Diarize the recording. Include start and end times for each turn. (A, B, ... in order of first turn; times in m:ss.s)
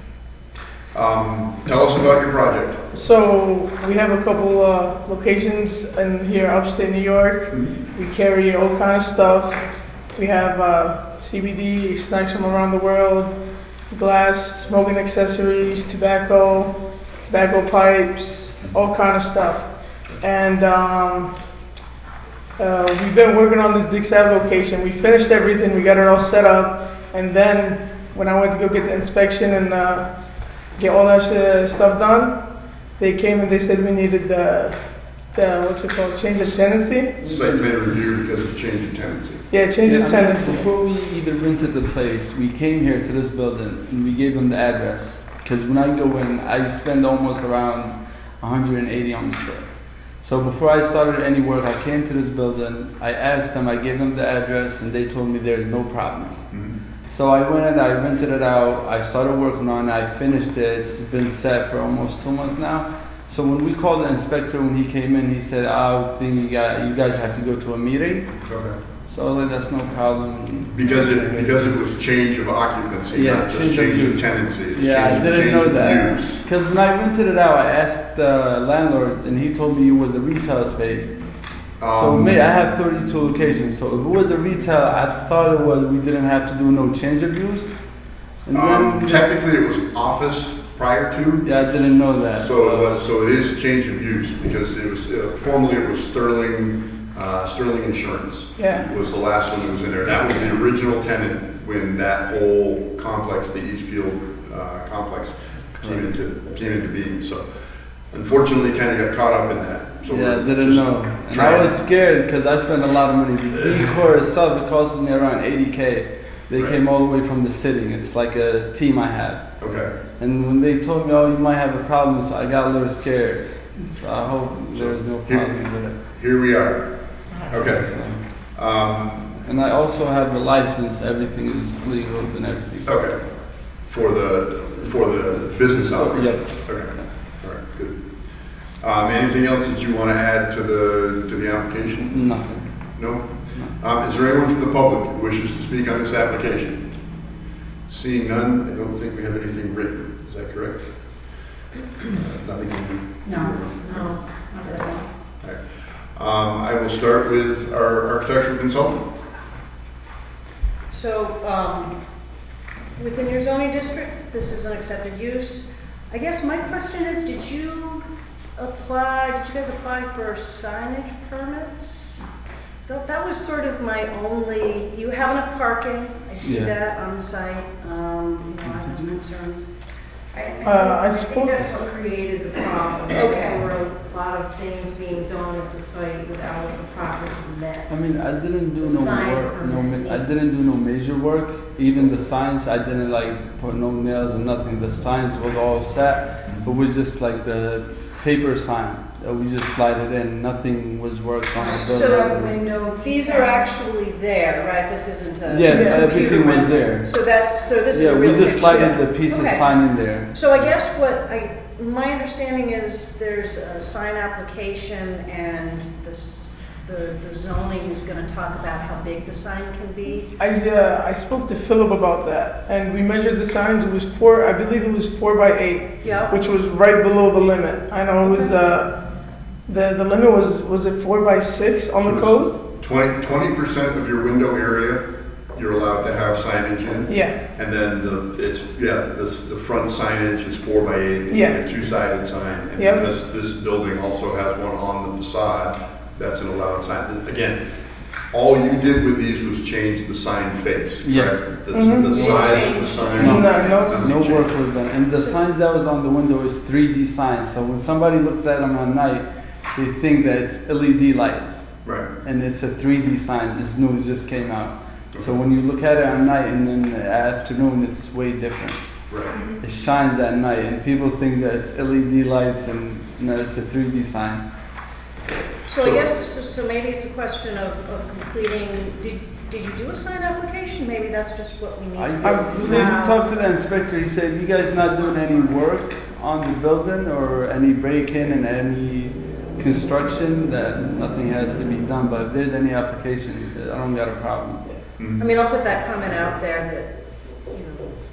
0:00.9-0:02.8 A
0:02.9-0:09.6 B
0:10.2-0:13.3 B
0:13.9-0:19.7 B
0:20.2-0:21.3 B
0:22.6-0:30.1 B
0:30.8-0:32.4 B
0:33.0-0:34.8 B
0:35.3-0:37.2 B
0:37.2-0:37.7 C
0:37.2-0:39.4 A
0:39.5-0:40.6 B
0:39.8-0:49.6 C
0:50.2-0:56.4 C
0:57.1-1:08.3 C
1:08.4-1:08.8 A
1:09.0-1:11.6 C
1:10.7-1:16.4 A
1:13.1-1:21.1 C
1:21.8-1:22.5 A
1:21.9-1:27.8 C
1:28.5-1:29.3 C
1:28.5-1:31.5 A
1:31.4-1:33.0 C
1:32.4-1:47.4 A
1:38.6-1:38.9 B
1:48.1-1:51.8 A
1:50.1-1:59.4 C
1:56.5-1:56.8 A
1:59.6-1:59.9 A
2:00.2-2:06.0 C
2:04.7-2:05.6 A
2:06.2-2:07.9 A
2:07.5-2:08.2 C
2:08.5-2:09.4 A
2:09.4-2:12.9 C
2:12.8-2:13.2 A
2:13.8-2:18.0 A
2:15.5-2:17.1 C
2:18.8-2:22.2 A
2:22.1-2:22.7 C
2:23.0-2:26.8 A
2:27.9-2:30.9 A
2:32.0-2:34.2 A
2:33.2-2:35.1 D
2:36.2-2:39.0 A
2:40.9-2:42.0 E
2:43.0-2:48.0 E
2:48.6-2:52.2 E
2:52.9-2:59.7 E
2:56.4-2:56.7 C
2:58.6-2:59.2 C
3:00.3-3:08.1 D
3:00.6-3:01.7 B
3:03.1-3:03.7 E
3:07.9-3:22.6 C
3:08.8-3:10.2 D
3:21.6-3:23.9 D
3:21.6-3:40.3 E
3:25.4-3:27.1 C
3:25.7-3:26.3 B
3:27.9-3:30.3 C
3:28.7-3:28.9 B
3:40.4-3:48.9 B
3:46.0-3:46.4 E
3:48.2-3:48.6 E
3:49.7-3:52.5 B
3:52.0-4:07.6 A
3:57.1-3:57.4 B
4:01.3-4:01.6 B
4:02.8-4:03.1 B
4:08.3-4:14.6 A
4:11.0-4:11.5 C
4:11.7-4:14.1 B
4:12.1-4:13.9 E
4:13.2-4:21.7 C
4:13.5-4:13.8 D
4:15.2-4:15.4 E
4:21.8-4:22.1 A
4:22.2-4:28.8 C
4:29.1-4:29.4 A
4:29.6-4:34.4 C
4:35.7-4:43.2 E
4:35.7-4:36.1 A
4:42.0-4:54.6 C
4:42.6-4:42.9 D
4:55.2-4:57.9 E